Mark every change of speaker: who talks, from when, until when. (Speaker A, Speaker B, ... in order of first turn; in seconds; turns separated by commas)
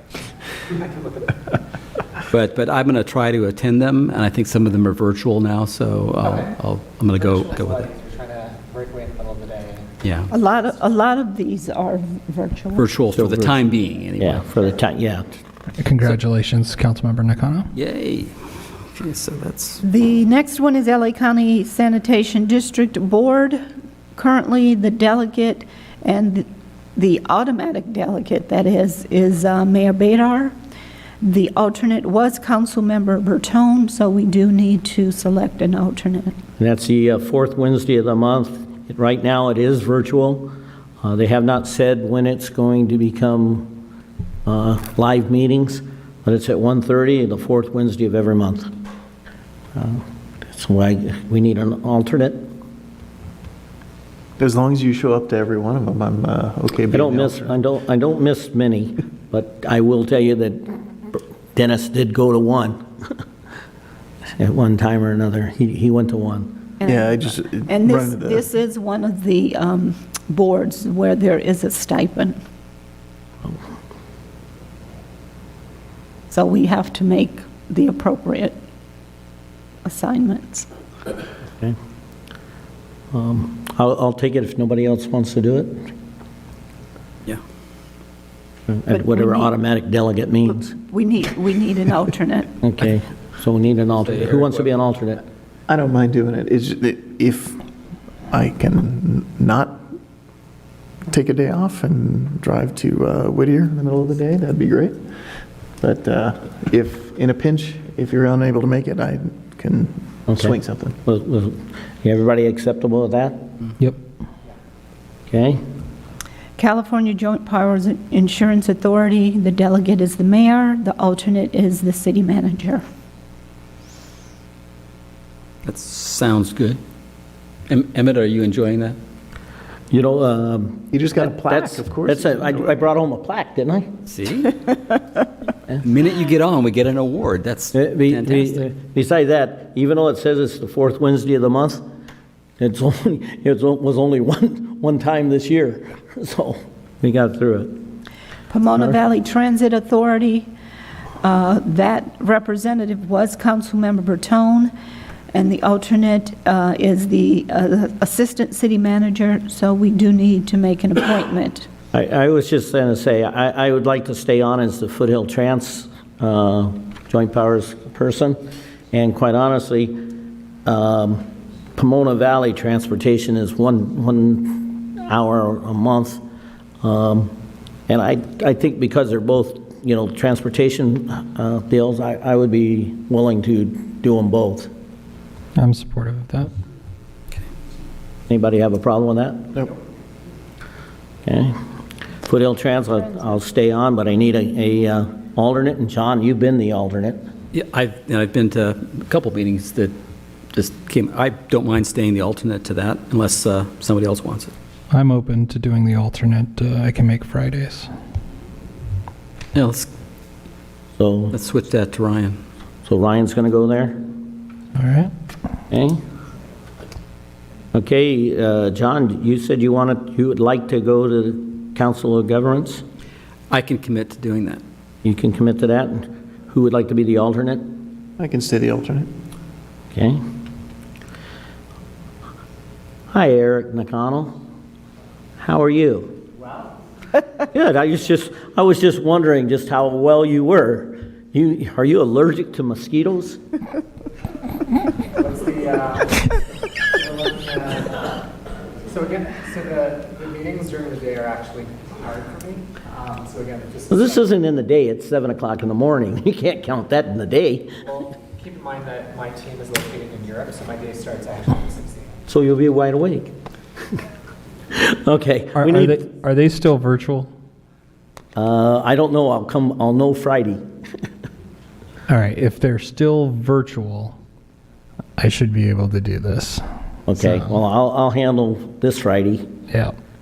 Speaker A: 0.7-1.6, Speaker B: 2.3-7.8, Speaker A: 6.2-6.5, Speaker A: 7.1-10.4, Speaker B: 10.0-10.3, Speaker C: 10.3-12.9, Speaker B: 12.8-14.5, Speaker D: 13.1-13.6, Speaker D: 14.2-15.3, Speaker E: 15.8-17.7, Speaker B: 17.7-19.8, Speaker C: 19.8-23.6, Speaker C: 24.1-30.5, Speaker C: 31.2-36.4, Speaker D: 36.6-43.8, Speaker D: 44.5-48.7, Speaker D: 49.8-52.5, Speaker F: 54.4-57.5, Speaker D: 56.9-62.8, Speaker D: 64.4-66.7, Speaker C: 66.8-72.4, Speaker F: 66.8-68.5, Speaker C: 76.3-78.6, Speaker C: 79.8-80.7, Speaker D: 83.1-85.9, Speaker D: 88.7-90.7, Speaker C: 88.9-89.5, Speaker C: 90.7-92.5, Speaker D: 92.6-95.2, Speaker B: 94.0-94.7, Speaker F: 95.7-97.6, Speaker F: 98.3-99.8, Speaker F: 101.1-105.0, Speaker F: 105.8-111.0, Speaker D: 110.3-113.5, Speaker D: 115.3-115.6, Speaker C: 116.6-122.8, Speaker B: 125.7-126.8, Speaker B: 127.7-129.0, Speaker D: 129.9-134.0, Speaker F: 130.9-132.9, Speaker B: 134.1-134.6, Speaker B: 135.8-138.6, Speaker D: 137.7-141.8, Speaker D: 142.6-147.8, Speaker C: 148.5-150.5, Speaker D: 148.7-149.0, Speaker C: 151.2-154.7, Speaker C: 155.3-161.7, Speaker D: 161.9-168.4, Speaker D: 168.9-170.1, Speaker D: 170.7-171.2, Speaker D: 171.8-176.2, Speaker D: 176.8-177.3, Speaker D: 177.9-184.7, Speaker E: 185.6-186.5, Speaker D: 188.3-189.6, Speaker D: 191.3-191.6, Speaker D: 192.3-197.2, Speaker B: 197.5-199.9, Speaker B: 200.5-204.5, Speaker E: 204.9-207.9, Speaker B: 209.5-209.9, Speaker D: 211.0-211.3, Speaker B: 211.3-212.4, Speaker D: 212.9-214.0, Speaker E: 214.8-215.1, Speaker D: 215.7-216.0, Speaker D: 217.7-222.8, Speaker B: 223.5-224.6, Speaker D: 225.0-227.8, Speaker F: 228.2-229.1, Speaker D: 229.9-230.2, Speaker D: 233.1-234.3, Speaker D: 235.4-236.2, Speaker D: 237.5-243.4, Speaker A: 245.2-246.4, Speaker A: 246.9-248.2, Speaker A: 248.9-254.3, Speaker D: 253.9-257.7, Speaker A: 257.9-262.2, Speaker D: 262.3-263.3, Speaker D: 264.7-266.1, Speaker E: 265.6-267.3, Speaker D: 268.4-270.6, Speaker E: 272.1-274.2, Speaker E: 275.2-276.6, Speaker D: 277.1-279.4